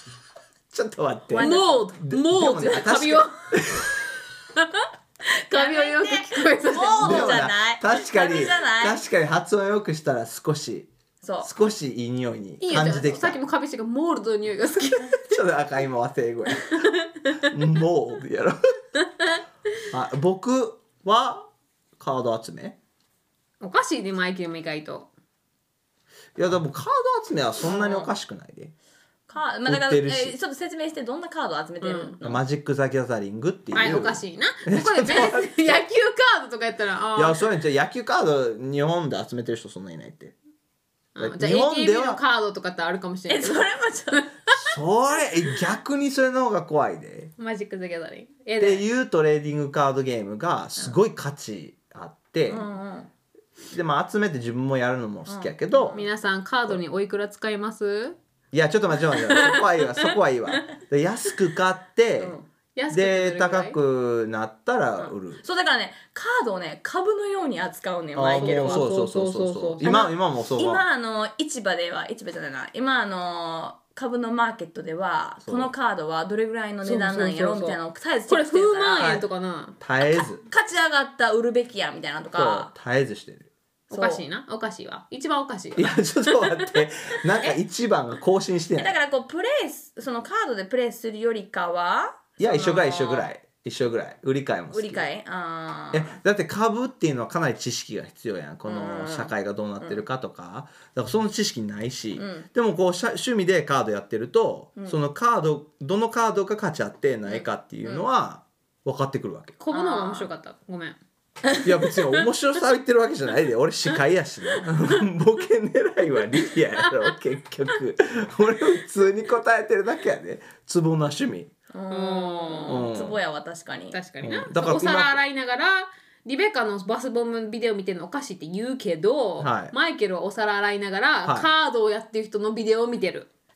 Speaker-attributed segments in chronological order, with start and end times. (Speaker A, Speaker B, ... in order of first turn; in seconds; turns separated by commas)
Speaker A: 0.7-3.9, Speaker B: 1.3-1.8, Speaker C: 1.4-3.5, Speaker C: 4.5-4.9, Speaker C: 5.5-7.4, Speaker B: 5.5-9.0, Speaker A: 7.0-10.9, Speaker B: 11.2-11.5, Speaker A: 11.4-13.4, Speaker C: 12.6-15.3, Speaker A: 15.2-18.6, Speaker C: 16.8-17.4, Speaker A: 19.9-22.8, Speaker C: 23.6-25.1, Speaker A: 26.4-28.7, Speaker B: 27.8-28.1, Speaker B: 29.3-32.4, Speaker A: 29.6-30.4, Speaker C: 31.8-32.2, Speaker A: 32.2-35.8, Speaker C: 33.7-37.4, Speaker A: 37.1-40.3, Speaker C: 41.1-44.7, Speaker A: 41.2-42.2, Speaker B: 43.3-44.3, Speaker A: 44.5-47.3, Speaker C: 47.4-48.8, Speaker A: 48.6-52.6, Speaker B: 52.5-53.1, Speaker A: 53.7-56.0, Speaker B: 55.3-56.1, Speaker C: 55.9-58.2, Speaker A: 58.5-62.3, Speaker C: 59.2-59.6, Speaker B: 62.2-62.5, Speaker C: 62.8-63.8, Speaker A: 62.9-65.4, Speaker B: 65.4-68.9, Speaker A: 68.1-70.8, Speaker C: 68.4-70.0, Speaker B: 69.8-79.1, Speaker A: 75.4-75.7, Speaker C: 76.8-79.8, Speaker A: 79.0-79.2, Speaker A: 79.8-80.4, Speaker B: 80.2-82.7, Speaker A: 82.3-83.5, Speaker B: 83.9-84.2, Speaker C: 83.9-86.8, Speaker A: 85.8-88.9, Speaker B: 88.8-93.3, Speaker A: 92.4-95.0, Speaker B: 94.7-96.1, Speaker A: 95.9-109.6, Speaker B: 98.6-100.0, Speaker B: 102.1-102.5, Speaker C: 109.6-111.0, Speaker B: 109.7-110.3, Speaker A: 111.6-121.5, Speaker B: 121.7-124.0, Speaker C: 121.9-122.9, Speaker A: 122.7-123.2, Speaker C: 123.9-133.3, Speaker A: 124.2-125.2, Speaker A: 129.4-129.7